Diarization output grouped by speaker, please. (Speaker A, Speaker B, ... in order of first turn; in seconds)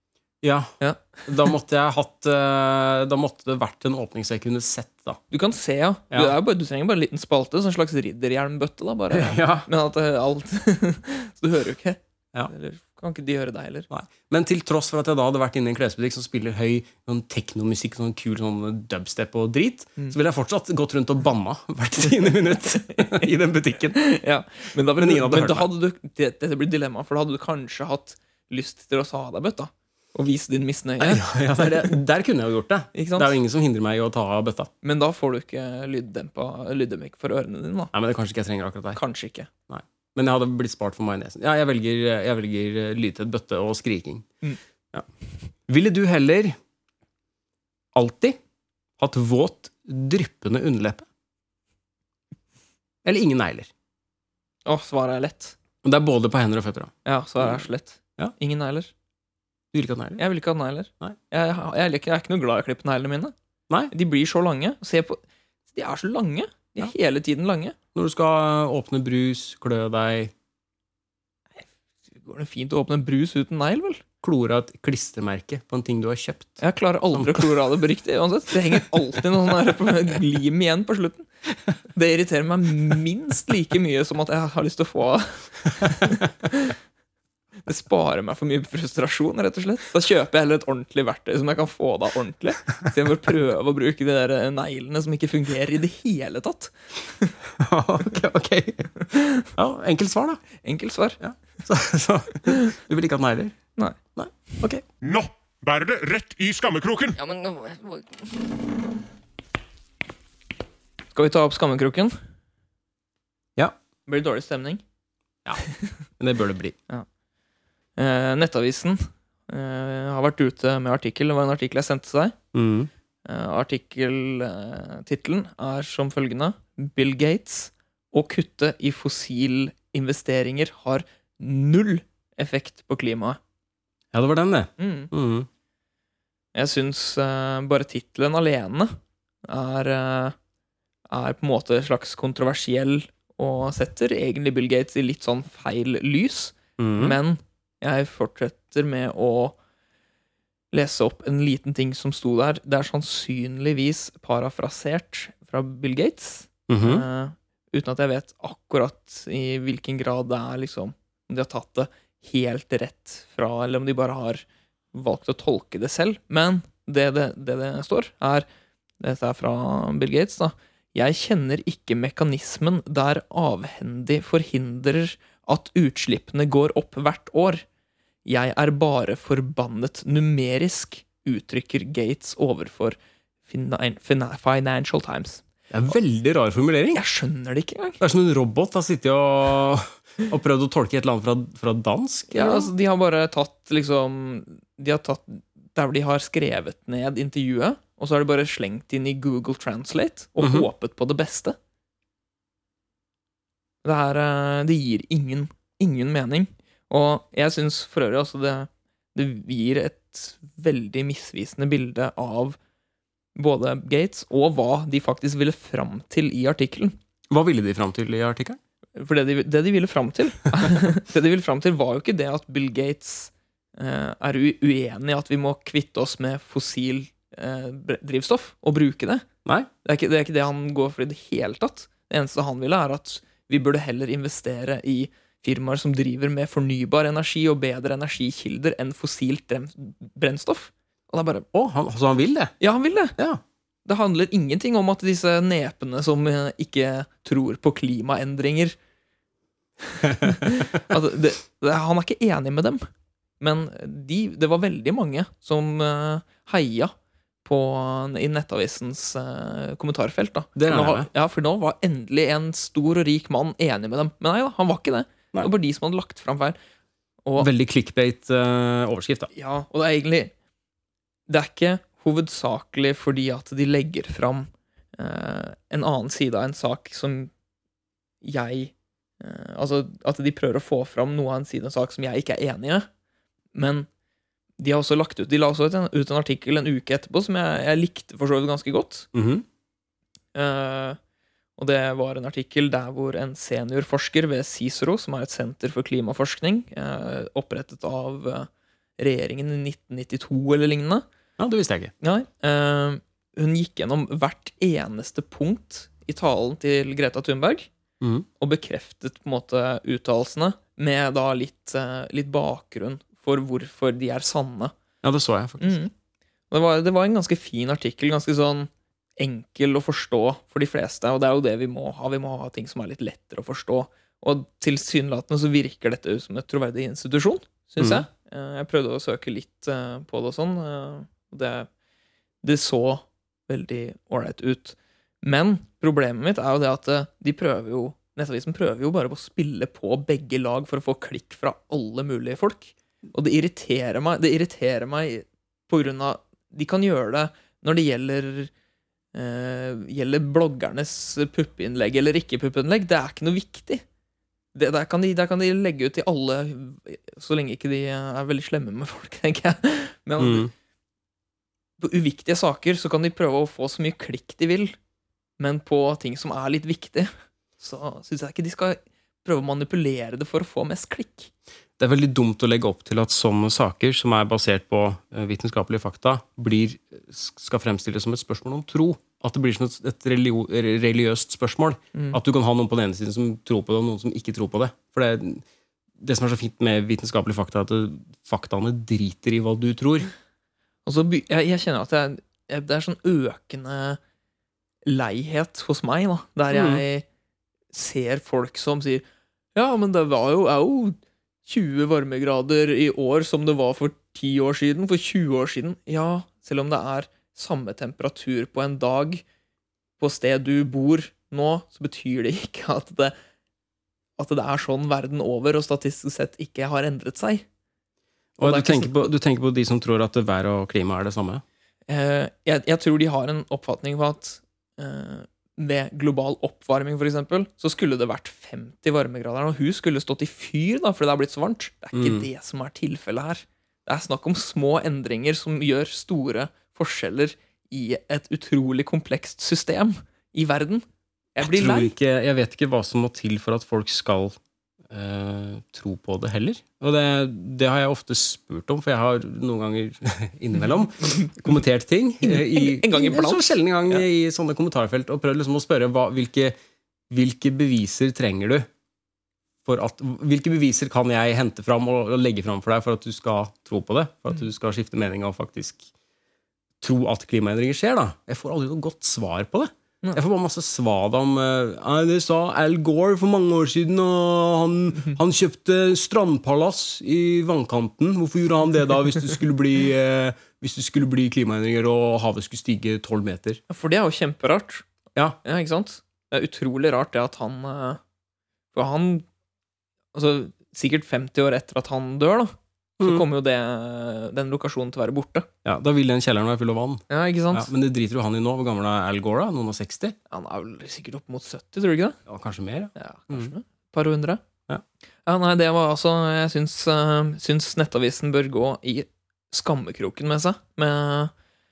Speaker A: 0.4-0.8, 1.3-5.2, 9.1-9.7, 13.9-24.0, 25.0-25.7, 31.0-34.7, 37.9-39.0, 39.7-44.3, 45.7-46.6, 47.9-48.4, 49.0-51.1, 53.0-53.7, 55.8-57.6, 59.7-60.2, 68.0-70.3, 74.2-76.6, 77.1-77.5, 97.6-100.4, 101.2-103.6, 104.2-104.8, 116.2-116.8, 122.5-122.9, 134.1-135.5, 146.8-147.2, 156.7-157.1, 185.7-187.0, 188.0-192.7, 200.4-200.7, 217.3-218.6, 241.5-242.5, 250.1-250.6, 260.6-261.1, 267.4-269.3, 289.1-289.4, 301.4-301.9, 308.0-308.3, 315.0-315.8, 327.8-328.1, 360.2-360.5, 371.8-385.4, 386.0-390.1, 396.5-396.8, 418.4-421.4, 431.9-432.3, 441.4-444.4, 444.9-456.6, 457.1-458.7, 459.6-465.9, 466.8-483.6, 493.0-493.2, 495.6-500.2, 502.3-503.5
Speaker B: 0.8-1.2, 5.3-13.9, 23.9-31.7, 32.9-33.4, 34.8-37.9, 38.9-39.5, 54.7-55.6, 57.0-58.9, 60.2-63.3, 63.9-67.8, 72.2-74.0, 76.6-81.3, 81.9-86.8, 87.7-97.3, 99.1-99.5, 100.6-101.2, 107.2-108.2, 111.1-112.2, 114.1-114.8, 118.0-122.4, 123.2-133.4, 134.8-135.1, 136.6-140.4, 141.1-149.6, 150.7-168.5, 169.0-177.7, 178.2-183.0, 183.5-185.4, 186.9-188.0, 192.3-201.6, 203.8-212.6, 213.4-216.9, 219.0-229.3, 229.8-241.5, 242.6-243.2, 243.9-248.8, 249.9-252.8, 253.4-256.9, 257.4-266.6, 269.3-270.3, 271.3-277.3, 278.2-282.9, 283.6-283.9, 284.6-289.1, 290.4-291.0, 291.6-301.1, 302.0-307.7, 308.4-314.7, 315.6-315.9, 316.5-331.7, 332.4-348.5, 349.1-353.8, 354.6-360.5, 361.8-364.8, 365.4-371.3, 390.9-394.0, 394.9-397.1, 397.7-409.2, 410.0-413.1, 414.2-417.4, 418.4-419.1, 421.9-441.9, 452.2-454.0, 483.7-484.9, 485.4-488.0, 488.7-489.3, 490.1-495.5, 497.1-497.7, 500.3-502.2, 503.0-504.4, 505.3-511.3
Speaker C: 105.0-107.2